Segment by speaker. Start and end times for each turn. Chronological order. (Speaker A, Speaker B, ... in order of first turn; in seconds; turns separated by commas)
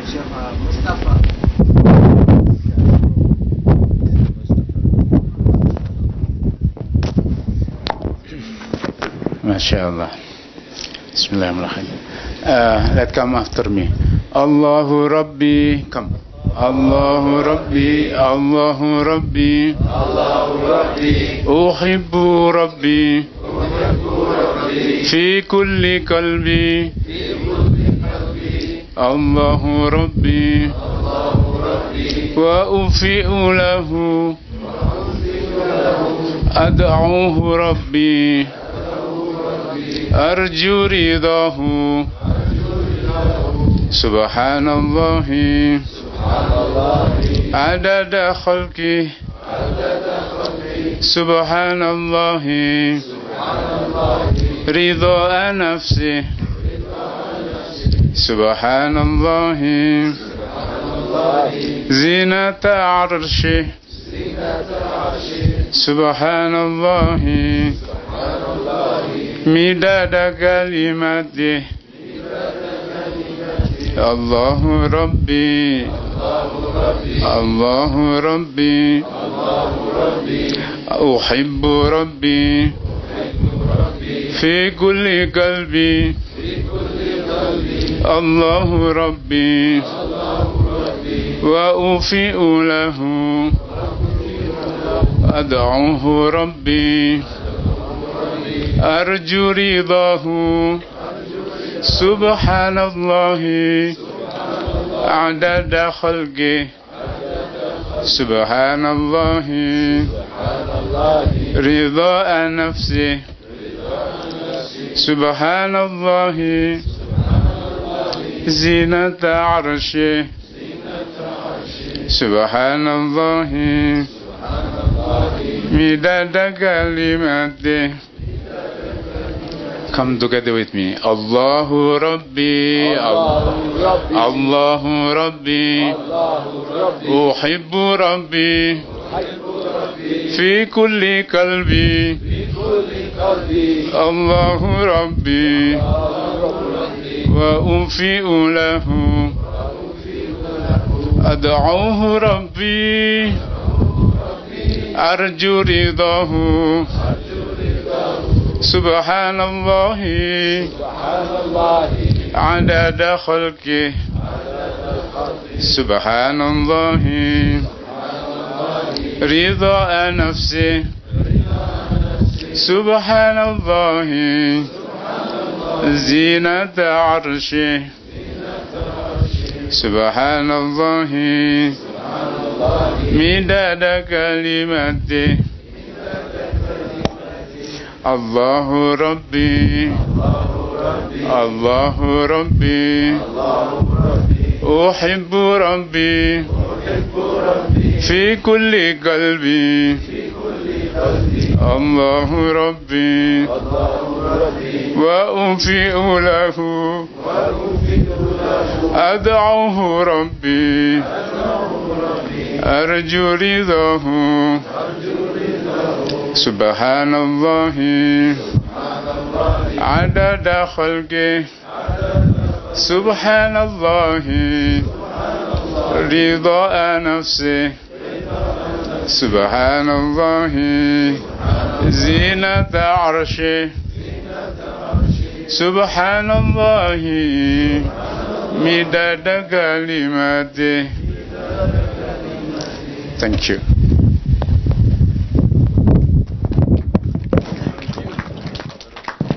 Speaker A: 9.4-10.1, Speaker A: 11.1-19.8, Speaker A: 21.3-23.3, Speaker A: 25.0-26.9, Speaker A: 29.0-30.8, Speaker A: 32.3-34.4, Speaker A: 36.5-38.5, Speaker A: 40.1-42.1, Speaker A: 43.9-45.9, Speaker A: 47.4-49.1, Speaker A: 51.0-53.0, Speaker A: 54.6-56.3, Speaker A: 58.1-60.2, Speaker A: 61.7-63.7, Speaker A: 65.7-67.8, Speaker A: 69.4-71.7, Speaker A: 73.8-76.0, Speaker A: 77.2-79.1, Speaker A: 80.8-82.8, Speaker A: 84.3-86.2, Speaker A: 88.0-90.0, Speaker A: 91.4-93.6, Speaker A: 95.2-97.3, Speaker A: 98.8-100.8, Speaker A: 101.8-104.0, Speaker A: 105.0-106.7, Speaker A: 108.0-110.2, Speaker A: 111.4-113.2, Speaker A: 114.9-116.8, Speaker A: 118.5-120.3, Speaker A: 122.1-124.1, Speaker A: 125.5-128.0, Speaker A: 129.9-136.1, Speaker A: 136.8-138.9, Speaker A: 140.3-142.3, Speaker A: 143.8-145.9, Speaker A: 147.2-149.4, Speaker A: 151.2-153.4, Speaker A: 154.9-157.0, Speaker A: 158.6-160.8, Speaker A: 162.2-163.9, Speaker A: 165.6-167.7, Speaker A: 169.2-170.8, Speaker A: 172.5-174.7, Speaker A: 175.8-177.9, Speaker A: 179.7-181.8, Speaker A: 183.0-185.4, Speaker A: 188.1-190.1, Speaker A: 191.2-193.3, Speaker A: 194.6-196.5, Speaker A: 198.0-200.1, Speaker A: 201.6-203.6, Speaker A: 204.9-207.1, Speaker A: 208.8-211.1, Speaker A: 212.6-214.7, Speaker A: 216.3-218.5, Speaker A: 219.8-221.5, Speaker A: 222.7-224.9, Speaker A: 225.9-227.8, Speaker A: 229.0-233.8, Speaker A: 235.5-237.9, Speaker A: 238.5-240.9, Speaker A: 243.2-243.6